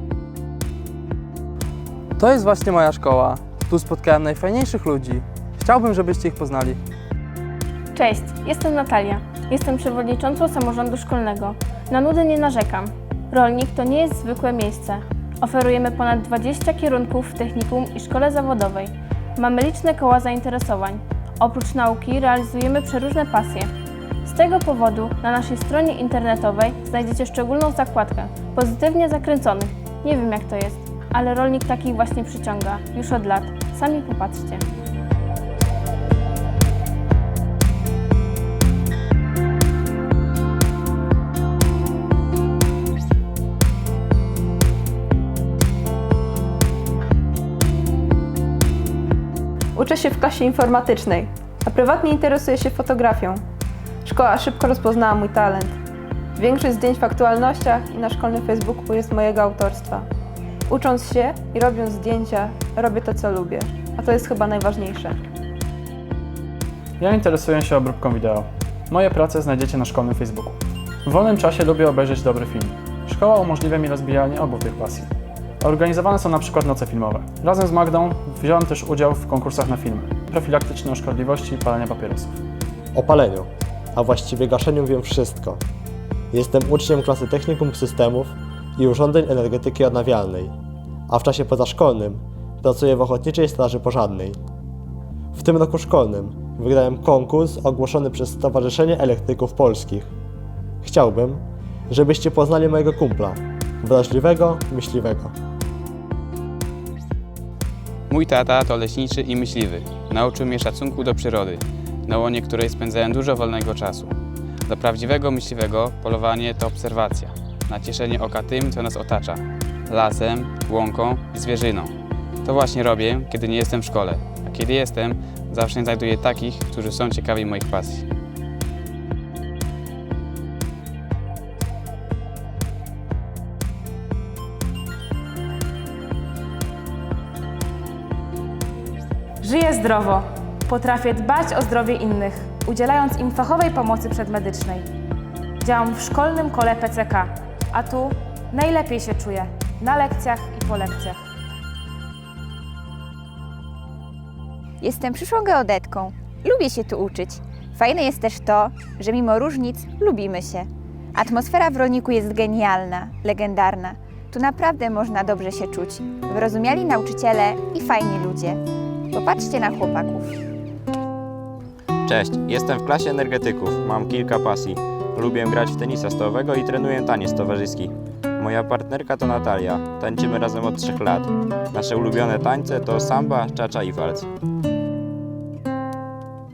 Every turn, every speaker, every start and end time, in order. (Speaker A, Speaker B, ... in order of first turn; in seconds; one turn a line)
Speaker A: 2.2-6.8
Speaker B: 7.9-23.7
Speaker B: 24.2-34.6
Speaker C: 49.7-53.4
Speaker C: 54.0-55.8
Speaker C: 56.4-60.0
Speaker C: 60.7-65.2
Speaker D: 67.0-75.1
Speaker D: 75.6-82.4
Speaker E: 82.9-85.6
Speaker E: 86.3-90.5
Speaker E: 91.1-94.4
Speaker E: 95.3-100.1
Speaker E: 100.8-105.3
Speaker F: 108.1-114.1
Speaker F: 114.7-121.9
Speaker F: 122.4-128.1
Speaker G: 139.4-144.9
Speaker G: 145.6-151.2
Speaker H: 154.8-168.6
Speaker H: 169.1-170.3
Speaker I: 172.0-184.3